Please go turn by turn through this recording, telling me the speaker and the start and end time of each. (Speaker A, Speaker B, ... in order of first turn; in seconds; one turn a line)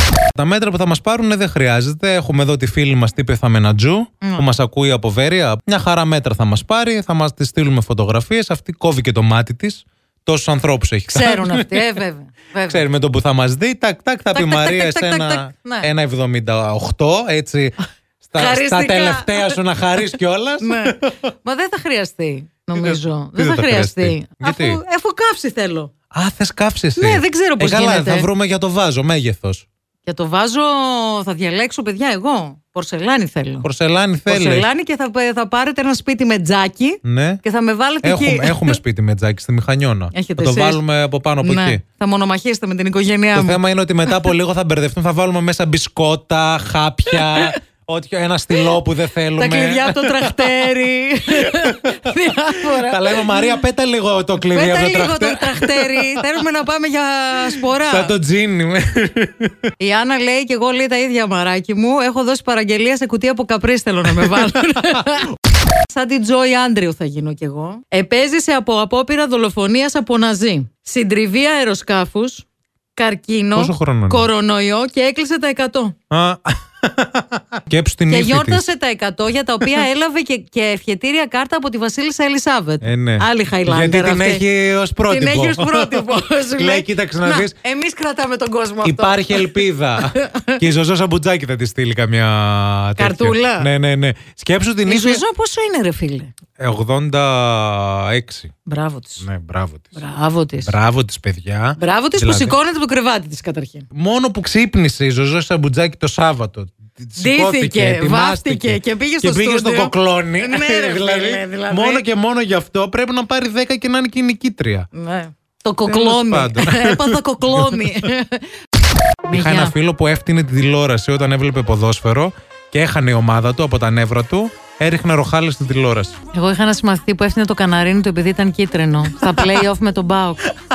Speaker A: 0.3-11.8
Speaker B: 4.2-4.5
Speaker B: 11.1-12.8
Speaker A: 12.7-21.1
Speaker B: 14.3-15.9
Speaker B: 18.4-19.6
Speaker B: 20.6-25.9
Speaker A: 22.7-24.8
Speaker A: 26.1-29.6
Speaker B: 26.9-28.3
Speaker B: 30.0-33.7
Speaker A: 33.6-34.7
Speaker B: 34.2-38.8
Speaker A: 37.0-37.4
Speaker A: 38.0-41.8
Speaker B: 40.1-40.8
Speaker B: 41.4-44.3
Speaker A: 43.3-56.3
Speaker B: 47.1-47.6
Speaker B: 49.4-53.6
Speaker B: 54.5-58.1
Speaker A: 57.4-59.5
Speaker B: 59.8-76.0
Speaker A: 64.1-65.1
Speaker A: 73.5-74.3
Speaker A: 76.1-78.6
Speaker B: 78.1-84.4
Speaker A: 82.8-87.5
Speaker B: 85.0-90.6
Speaker A: 88.8-95.2
Speaker B: 93.0-93.7
Speaker B: 94.8-96.3
Speaker A: 96.6-98.5
Speaker B: 98.7-99.2
Speaker A: 99.2-100.0
Speaker B: 100.0-100.8
Speaker A: 100.6-102.5
Speaker B: 101.8-103.9
Speaker A: 103.9-114.9
Speaker B: 107.2-112.0
Speaker B: 114.9-118.6
Speaker A: 115.8-118.1
Speaker B: 119.2-119.7
Speaker A: 119.3-126.2
Speaker B: 126.3-130.5